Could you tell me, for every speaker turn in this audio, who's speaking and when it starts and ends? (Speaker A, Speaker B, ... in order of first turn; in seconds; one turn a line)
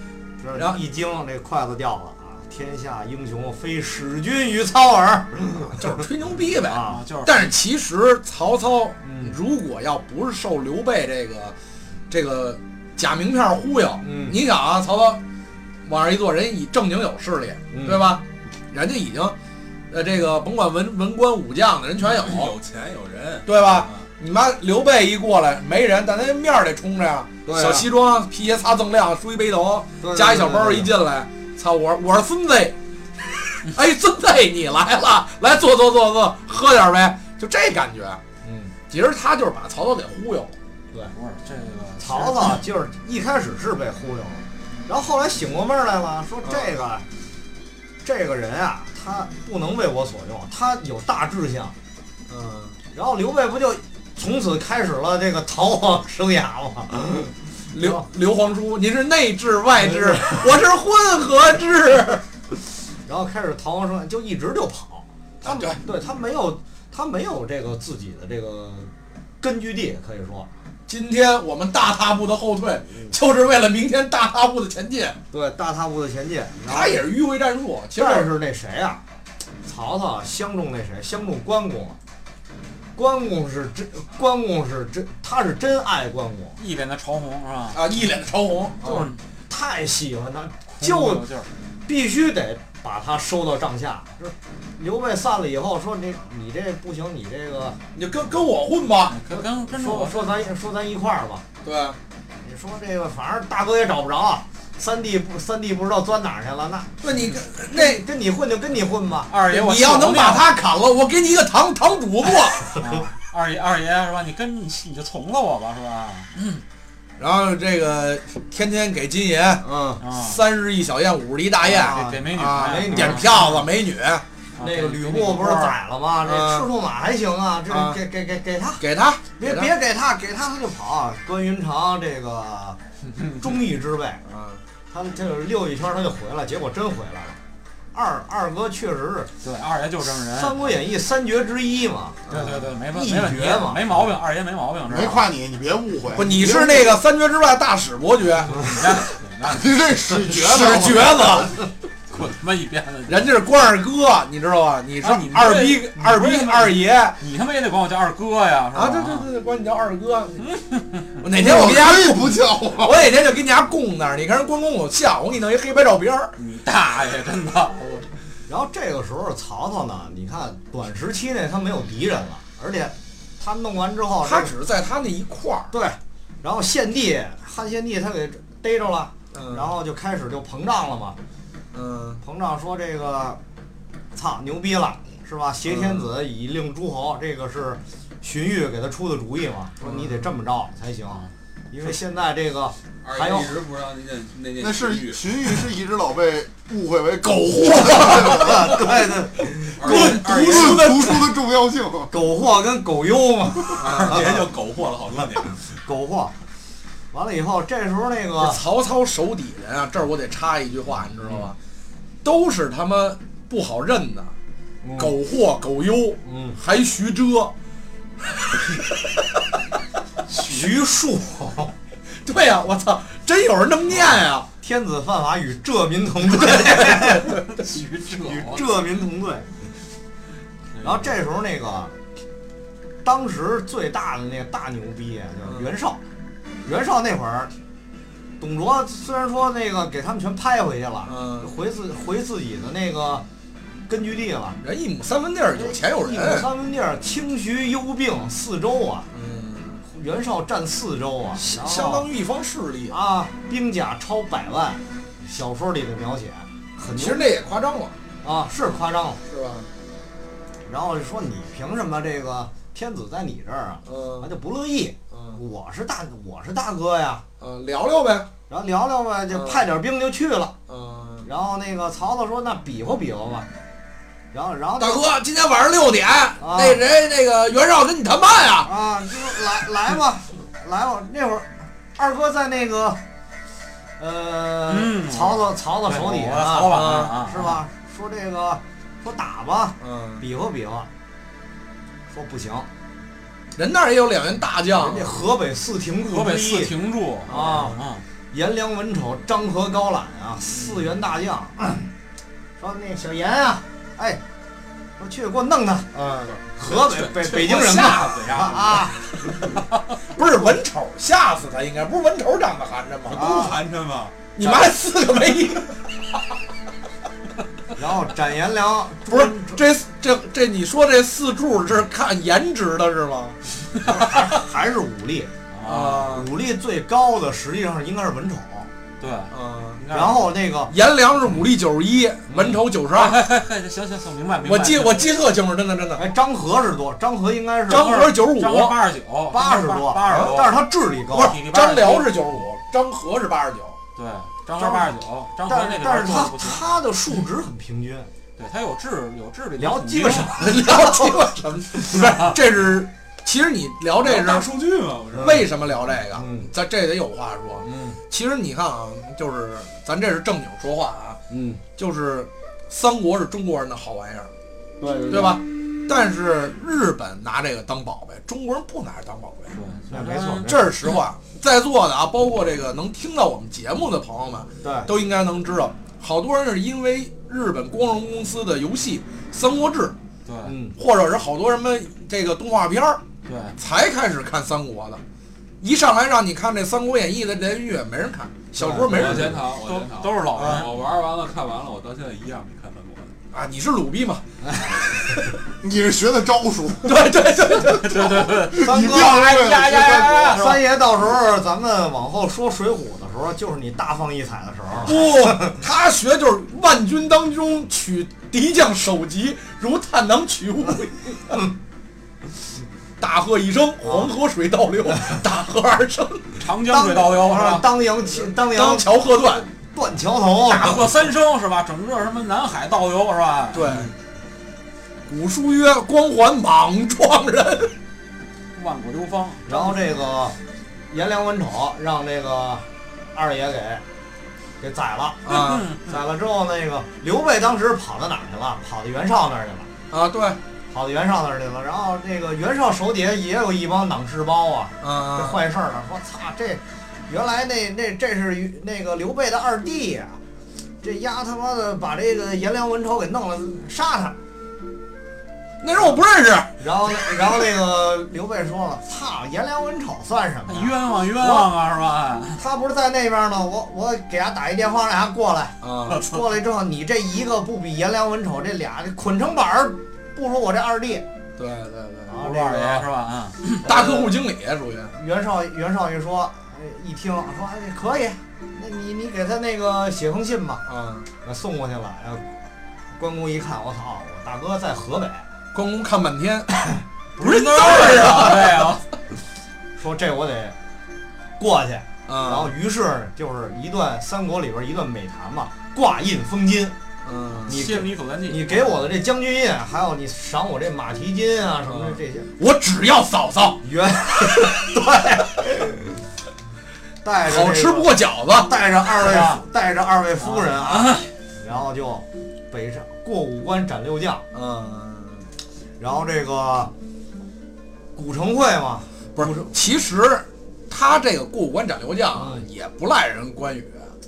Speaker A: 0.4-6.0
Speaker B: 5.8-11.6
Speaker A: 6.6-7.0
Speaker C: 6.8-7.5
Speaker A: 9.0-9.4
Speaker B: 12.1-15.2
Speaker A: 14.0-14.4
Speaker B: 15.8-19.4
Speaker A: 17.7-18.1
Speaker B: 19.9-22.6
Speaker D: 22.1-24.1
Speaker B: 23.4-32.8
Speaker A: 27.5-27.9
Speaker A: 30.0-30.9
Speaker B: 33.4-38.2
Speaker A: 38.4-38.7
Speaker B: 38.9-40.6
Speaker C: 41.1-42.6
Speaker A: 42.0-47.0
Speaker B: 46.4-46.8
Speaker A: 48.0-51.8
Speaker B: 52.3-52.8
Speaker A: 52.9-58.0
Speaker B: 57.7-62.2
Speaker A: 59.8-60.4
Speaker A: 63.1-70.5
Speaker B: 65.4-65.8
Speaker B: 70.9-75.2
Speaker A: 75.3-77.0
Speaker B: 76.7-78.3
Speaker A: 78.0-79.0
Speaker A: 79.7-82.0
Speaker A: 83.0-86.6
Speaker C: 86.6-87.8
Speaker B: 87.7-89.1
Speaker A: 88.8-91.3
Speaker C: 88.8-89.2
Speaker C: 90.8-91.5
Speaker A: 91.9-97.8
Speaker B: 98.0-99.2
Speaker C: 99.1-100.4
Speaker A: 99.7-101.4
Speaker B: 101.6-102.0
Speaker A: 102.4-107.0
Speaker B: 107.0-108.0
Speaker A: 107.6-109.3
Speaker C: 109.3-110.5
Speaker B: 109.5-112.8
Speaker C: 112.8-116.3
Speaker B: 117.2-124.2
Speaker A: 119.6-120.0
Speaker C: 120.0-120.4
Speaker A: 121.7-123.6
Speaker C: 121.7-123.4
Speaker C: 124.6-125.8
Speaker A: 124.6-128.8
Speaker B: 126.2-126.7
Speaker B: 127.7-128.0
Speaker B: 128.8-129.7
Speaker A: 129.4-132.8
Speaker C: 133.1-133.4
Speaker A: 133.4-134.2
Speaker B: 134.2-134.6
Speaker A: 134.9-137.4
Speaker A: 137.9-139.3
Speaker C: 139.4-140.7
Speaker A: 140.2-144.0
Speaker B: 142.3-142.6
Speaker C: 142.3-145.3
Speaker E: 144.9-146.4
Speaker B: 146.1-148.6
Speaker A: 146.4-146.7
Speaker C: 148.5-150.0
Speaker E: 149.4-151.5
Speaker B: 150.2-151.7
Speaker C: 152.1-153.3
Speaker B: 153.1-157.2
Speaker C: 155.0-159.3
Speaker B: 158.7-160.4
Speaker C: 160.5-161.1
Speaker B: 161.2-166.3
Speaker E: 161.3-163.0
Speaker C: 166.4-168.1
Speaker A: 168.5-174.6
Speaker B: 174.2-175.7
Speaker A: 175.7-181.2
Speaker B: 179.3-179.7
Speaker B: 181.7-182.2
Speaker A: 182.2-183.4
Speaker A: 184.1-193.6
Speaker B: 185.7-186.1
Speaker B: 189.8-190.2
Speaker D: 193.0-195.5
Speaker E: 194.6-198.8
Speaker B: 197.2-198.8
Speaker A: 198.1-200.2
Speaker D: 199.8-201.1
Speaker B: 199.8-201.3
Speaker E: 200.4-202.1
Speaker A: 202.1-204.4
Speaker D: 203.8-205.6
Speaker B: 203.8-204.4
Speaker A: 205.9-206.3
Speaker A: 207.1-208.6
Speaker B: 208.4-211.6
Speaker B: 212.2-214.3
Speaker A: 214.8-215.1
Speaker B: 215.0-217.5
Speaker A: 216.2-216.6
Speaker B: 218.3-219.4
Speaker A: 220.3-221.7
Speaker B: 222.2-224.5
Speaker A: 224.6-227.4
Speaker B: 226.4-227.0
Speaker C: 226.9-228.7
Speaker A: 228.2-229.5
Speaker A: 230.8-231.9
Speaker A: 233.0-236.0
Speaker A: 236.6-237.5
Speaker A: 238.4-243.2
Speaker B: 241.1-241.5
Speaker A: 243.9-244.6
Speaker B: 244.6-246.5
Speaker A: 245.6-249.1
Speaker B: 249.1-249.8
Speaker A: 249.9-252.1
Speaker B: 251.3-253.0
Speaker A: 252.9-257.3
Speaker B: 256.9-258.0
Speaker A: 258.2-259.2
Speaker B: 259.3-259.7
Speaker A: 260.7-267.2
Speaker B: 263.9-264.3
Speaker B: 265.1-265.4
Speaker B: 267.4-268.3
Speaker A: 268.5-270.6
Speaker B: 269.3-269.6
Speaker B: 270.7-271.3
Speaker A: 271.2-273.5
Speaker A: 274.3-275.1
Speaker B: 274.8-278.7
Speaker A: 276.4-276.8
Speaker A: 278.6-283.0
Speaker A: 284.0-290.9
Speaker C: 284.7-287.6
Speaker B: 286.7-287.2
Speaker B: 289.8-290.2
Speaker A: 292.1-292.7
Speaker B: 293.6-295.1
Speaker A: 294.8-296.7
Speaker C: 296.1-298.0
Speaker B: 297.3-297.9
Speaker A: 297.3-297.8
Speaker A: 298.3-301.9
Speaker B: 300.5-300.9
Speaker A: 302.6-304.2
Speaker A: 305.0-309.1
Speaker D: 306.6-308.9
Speaker B: 307.3-309.5
Speaker B: 310.0-313.4
Speaker D: 313.1-314.2
Speaker A: 313.1-313.6
Speaker B: 314.4-315.8
Speaker A: 317.8-319.6
Speaker B: 319.1-323.4
Speaker A: 323.8-325.3
Speaker C: 325.5-326.2
Speaker B: 325.6-326.3
Speaker A: 326.0-328.7
Speaker C: 329.0-330.3
Speaker B: 329.3-329.8
Speaker A: 329.9-330.7
Speaker B: 330.7-333.2
Speaker C: 332.4-335.1
Speaker B: 334.4-336.0
Speaker A: 336.0-338.1
Speaker B: 337.7-338.8
Speaker C: 338.0-342.2
Speaker A: 339.3-341.4
Speaker B: 340.1-340.4
Speaker B: 341.4-343.8
Speaker C: 344.0-346.6
Speaker A: 344.6-344.9
Speaker A: 345.5-348.1
Speaker C: 348.4-350.3
Speaker A: 349.6-352.2
Speaker B: 350.4-354.5
Speaker C: 351.9-352.4
Speaker D: 354.0-355.5
Speaker A: 355.1-355.4
Speaker B: 355.1-361.2
Speaker A: 356.1-356.5
Speaker A: 357.6-358.0
Speaker A: 361.3-361.6
Speaker B: 361.8-364.3
Speaker A: 364.8-365.4
Speaker B: 365.1-369.5
Speaker C: 369.5-370.5
Speaker A: 369.9-370.7
Speaker B: 370.4-380.0
Speaker A: 374.6-374.9
Speaker C: 380.3-380.5
Speaker A: 380.4-380.8
Speaker B: 380.8-383.0
Speaker C: 383.2-383.6
Speaker B: 383.6-385.0
Speaker B: 385.6-389.4
Speaker A: 388.6-388.9
Speaker C: 388.8-390.8
Speaker D: 388.9-393.1
Speaker B: 390.4-390.7
Speaker B: 393.3-394.2
Speaker A: 394.4-394.8
Speaker E: 395.6-397.0
Speaker B: 396.8-398.3
Speaker C: 397.6-400.6
Speaker E: 398.4-400.4
Speaker A: 398.6-399.4
Speaker A: 400.3-405.6
Speaker B: 404.8-411.4
Speaker B: 413.0-416.4
Speaker C: 416.4-417.7
Speaker A: 416.7-418.9
Speaker B: 418.2-419.5
Speaker A: 419.6-421.0
Speaker C: 420.5-423.9
Speaker B: 423.5-423.9
Speaker B: 425.1-427.7
Speaker C: 428.6-429.8
Speaker A: 429.5-430.4
Speaker A: 430.9-433.8
Speaker A: 434.6-435.2
Speaker B: 435.2-435.7
Speaker C: 435.3-435.9
Speaker A: 435.9-439.7
Speaker B: 439.9-440.4
Speaker A: 440.7-450.2
Speaker B: 444.8-445.4
Speaker A: 450.8-454.2
Speaker B: 455.6-456.5
Speaker A: 456.6-461.5
Speaker C: 460.5-462.4
Speaker A: 462.4-471.0
Speaker B: 465.6-466.0
Speaker C: 465.9-466.2
Speaker B: 471.4-472.2
Speaker A: 472.1-472.9
Speaker C: 472.2-473.6
Speaker B: 473.6-474.9
Speaker A: 473.6-474.1
Speaker A: 474.9-480.6
Speaker B: 480.7-481.1
Speaker A: 481.2-482.2
Speaker A: 483.0-485.3
Speaker B: 485.5-486.6
Speaker B: 487.2-488.8
Speaker A: 487.2-488.1
Speaker C: 487.2-488.8
Speaker A: 489.8-490.6
Speaker A: 491.4-496.7
Speaker B: 492.1-492.5
Speaker B: 497.1-497.6
Speaker A: 497.5-502.3
Speaker C: 497.5-498.8
Speaker B: 501.7-503.6
Speaker A: 503.6-506.0
Speaker A: 507.0-514.2
Speaker B: 507.2-508.5
Speaker B: 510.2-510.5
Speaker C: 510.7-511.1
Speaker B: 514.3-515.3
Speaker A: 515.8-516.7
Speaker A: 518.0-519.5
Speaker B: 519.2-523.9
Speaker A: 522.1-522.4